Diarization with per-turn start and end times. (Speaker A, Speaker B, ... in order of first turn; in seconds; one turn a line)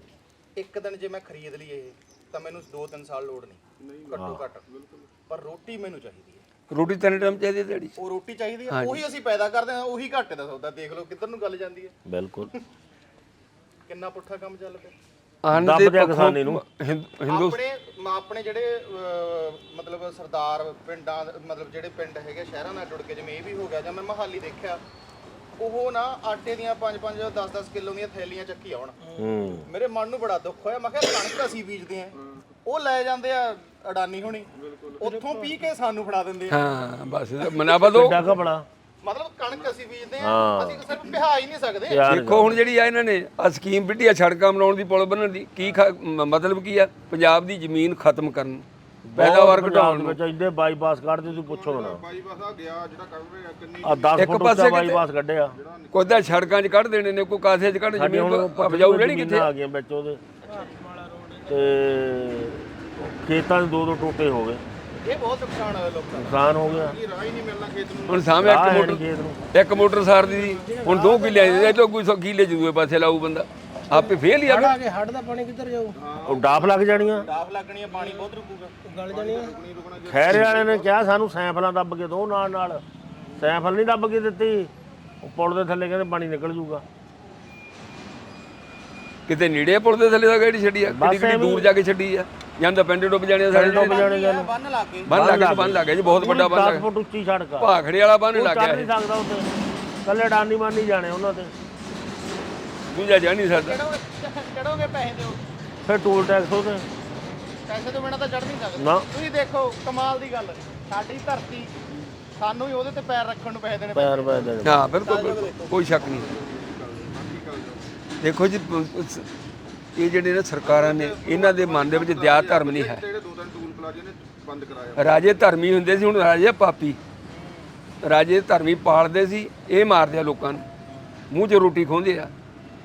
Speaker A: 0.6-4.6
Speaker B: 3.8-5.1
Speaker C: 4.2-4.4
Speaker A: 5.3-6.4
Speaker D: 6.7-8.0
Speaker A: 8.0-11.9
Speaker D: 8.7-9.0
Speaker C: 12.1-12.5
Speaker A: 13.9-14.9
Speaker D: 15.4-17.6
Speaker C: 15.5-16.6
Speaker A: 17.3-24.8
Speaker A: 25.6-29.0
Speaker E: 29.0-29.3
Speaker C: 29.2-29.7
Speaker A: 29.7-36.6
Speaker B: 34.5-35.0
Speaker E: 35.0-35.6
Speaker D: 36.5-38.2
Speaker A: 37.5-38.3
Speaker C: 37.9-38.7
Speaker A: 39.0-42.1
Speaker C: 40.2-40.9
Speaker C: 41.9-42.6
Speaker D: 42.0-48.6
Speaker C: 49.0-52.0
Speaker D: 49.1-50.2
Speaker B: 51.3-54.3
Speaker C: 53.8-55.5
Speaker D: 54.2-55.0
Speaker B: 55.5-56.5
Speaker D: 55.9-59.5
Speaker C: 58.0-60.2
Speaker E: 60.5-61.9
Speaker C: 61.5-64.6
Speaker A: 65.0-66.5
Speaker C: 66.2-67.0
Speaker B: 66.7-68.4
Speaker D: 68.1-69.0
Speaker C: 68.4-69.4
Speaker D: 69.5-74.8
Speaker E: 70.2-71.8
Speaker A: 71.2-71.5
Speaker E: 73.9-76.0
Speaker B: 76.0-77.4
Speaker C: 76.2-77.3
Speaker A: 77.2-78.8
Speaker E: 77.9-78.3
Speaker E: 78.8-79.6
Speaker B: 79.1-80.9
Speaker C: 80.0-82.8
Speaker C: 83.4-84.7
Speaker C: 85.2-86.8
Speaker D: 89.3-94.1
Speaker C: 90.9-91.7
Speaker C: 93.5-94.5
Speaker A: 93.5-95.5
Speaker D: 95.1-96.9
Speaker C: 95.1-97.7
Speaker D: 97.6-98.9
Speaker C: 98.3-99.5
Speaker C: 100.0-101.5
Speaker D: 102.9-103.8
Speaker A: 103.5-105.4
Speaker C: 105.9-106.9
Speaker A: 107.7-111.8
Speaker C: 108.8-109.1
Speaker A: 112.4-115.8
Speaker C: 114.0-114.9
Speaker D: 114.6-116.3
Speaker B: 115.9-118.0
Speaker D: 118.2-119.3
Speaker D: 120.0-123.0
Speaker B: 120.6-125.2
Speaker D: 125.0-127.0
Speaker A: 127.3-127.8
Speaker D: 128.0-130.7
Speaker A: 130.9-131.2
Speaker D: 131.3-132.3